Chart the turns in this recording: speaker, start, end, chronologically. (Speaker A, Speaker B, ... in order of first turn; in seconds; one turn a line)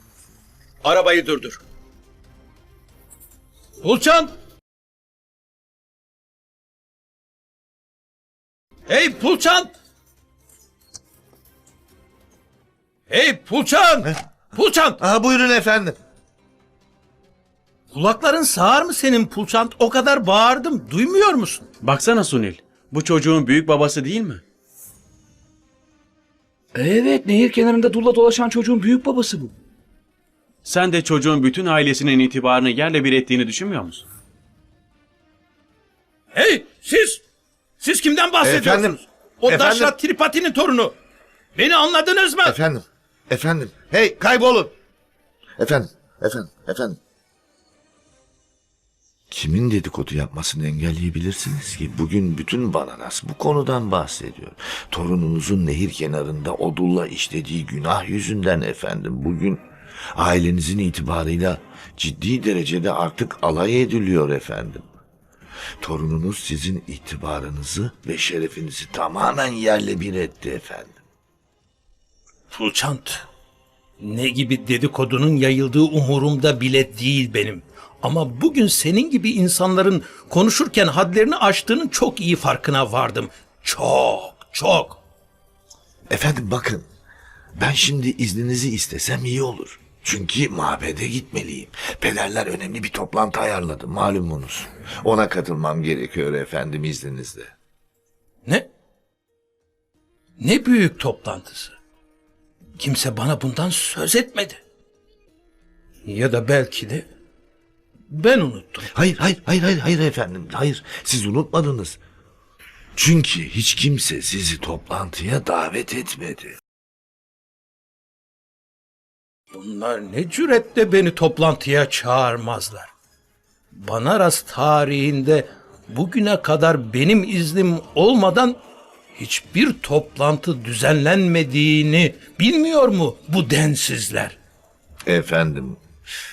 Speaker A: 0.8-1.6
Speaker A: 3.8-4.3
Speaker A: 8.9-9.7
Speaker A: 13.1-15.0
Speaker B: 15.0-15.9
Speaker A: 17.9-21.7
Speaker C: 21.8-24.4
Speaker D: 26.8-29.5
Speaker C: 30.6-34.0
Speaker A: 36.3-37.2
Speaker A: 37.8-40.9
Speaker B: 38.4-39.9
Speaker A: 41.5-42.5
Speaker B: 42.4-44.7
Speaker B: 45.6-47.0
Speaker B: 49.3-59.6
Speaker B: 60.1-64.8
Speaker B: 65.8-71.0
Speaker A: 72.5-73.2
Speaker A: 74.0-85.0
Speaker B: 86.1-86.8
Speaker B: 87.6-97.5
Speaker A: 100.4-101.8
Speaker A: 102.8-104.6
Speaker A: 106.0-107.0
Speaker A: 108.1-108.9
Speaker B: 108.9-112.0
Speaker B: 113.0-116.5
Speaker A: 119.5-122.9
Speaker A: 123.7-128.6
Speaker A: 129.2-134.3
Speaker B: 135.1-135.8